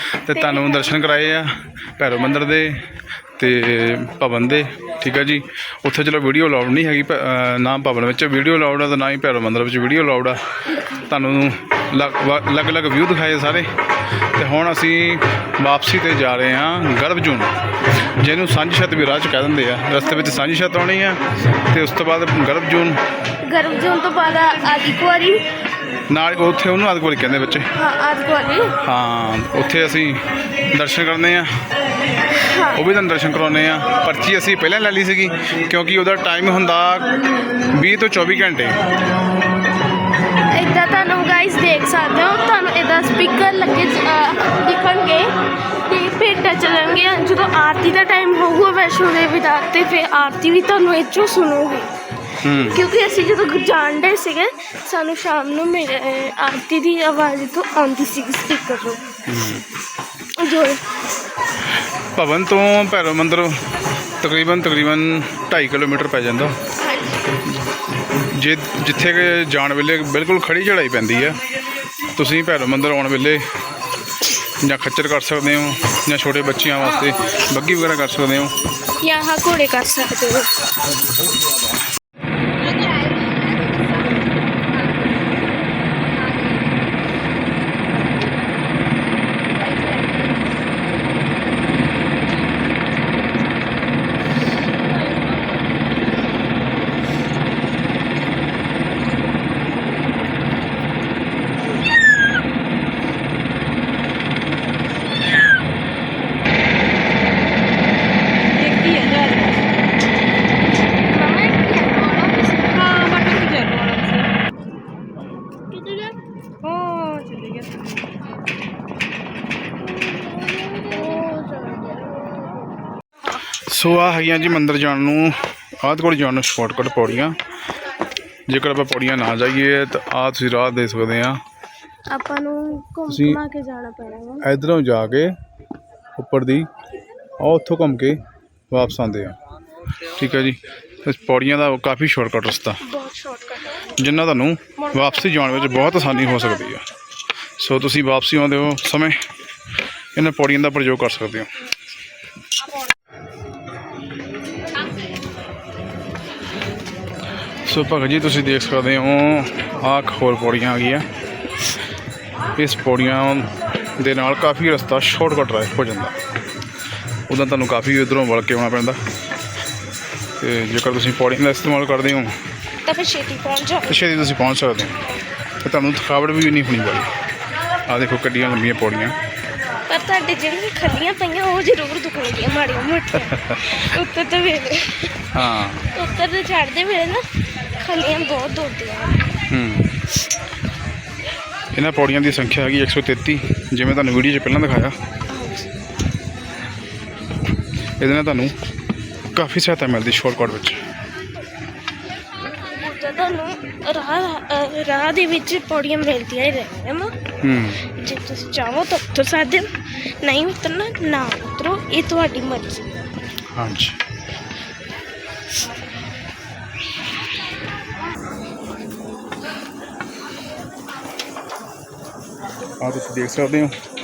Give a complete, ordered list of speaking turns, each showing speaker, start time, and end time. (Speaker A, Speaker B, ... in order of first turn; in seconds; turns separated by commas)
Speaker A: 0.3-10.4, Speaker B: 0.5-0.8, Speaker A: 11.0-13.7, Speaker A: 14.3-17.5, Speaker A: 18.2-23.0, Speaker B: 23.5-25.4, Speaker A: 26.1-27.7, Speaker B: 27.8-28.7, Speaker A: 28.8-31.5, Speaker B: 32.4-32.8, Speaker A: 32.7-37.1, Speaker A: 37.7-38.8, Speaker B: 40.5-45.3, Speaker B: 45.9-51.9, Speaker A: 52.4-52.8, Speaker B: 52.6-59.0, Speaker A: 59.3-59.6, Speaker B: 60.4-60.8, Speaker A: 62.2-63.6, Speaker A: 64.2-66.6, Speaker B: 66.8-67.3, Speaker A: 68.3-71.4, Speaker A: 72.2-73.4, Speaker A: 74.6-78.5, Speaker B: 79.0-80.5, Speaker C: 108.5-109.6, Speaker B: 111.0-112.9, Speaker C: 112.7-114.3, Speaker B: 115.7-116.1, Speaker C: 116.7-117.9, Speaker B: 120.1-121.7, Speaker A: 123.7-127.4, Speaker A: 128.5-131.4, Speaker B: 132.1-134.5, Speaker A: 133.1-133.4, Speaker A: 134.4-135.4, Speaker A: 136.2-136.7, Speaker A: 137.4-138.2, Speaker A: 138.7-139.4, Speaker A: 140.1-142.8, Speaker B: 142.8-143.8, Speaker A: 144.0-146.9, Speaker A: 147.6-149.2, Speaker A: 150.2-151.5, Speaker A: 157.7-161.1, Speaker A: 162.6-166.2, Speaker A: 167.3-169.0, Speaker A: 170.4-172.3, Speaker B: 172.8-174.0, Speaker A: 173.9-174.9, Speaker A: 175.6-177.1, Speaker A: 177.9-179.2, Speaker B: 179.9-185.1, Speaker A: 183.2-183.6, Speaker A: 185.3-185.8, Speaker B: 185.9-189.3, Speaker A: 189.5-190.0, Speaker A: 191.7-195.0, Speaker B: 195.3-195.7, Speaker A: 198.0-198.6, Speaker A: 199.3-200.8, Speaker B: 202.6-207.1, Speaker A: 207.4-207.8, Speaker B: 207.8-209.7, Speaker B: 210.2-213.0, Speaker A: 213.5-214.0, Speaker A: 222.8-223.8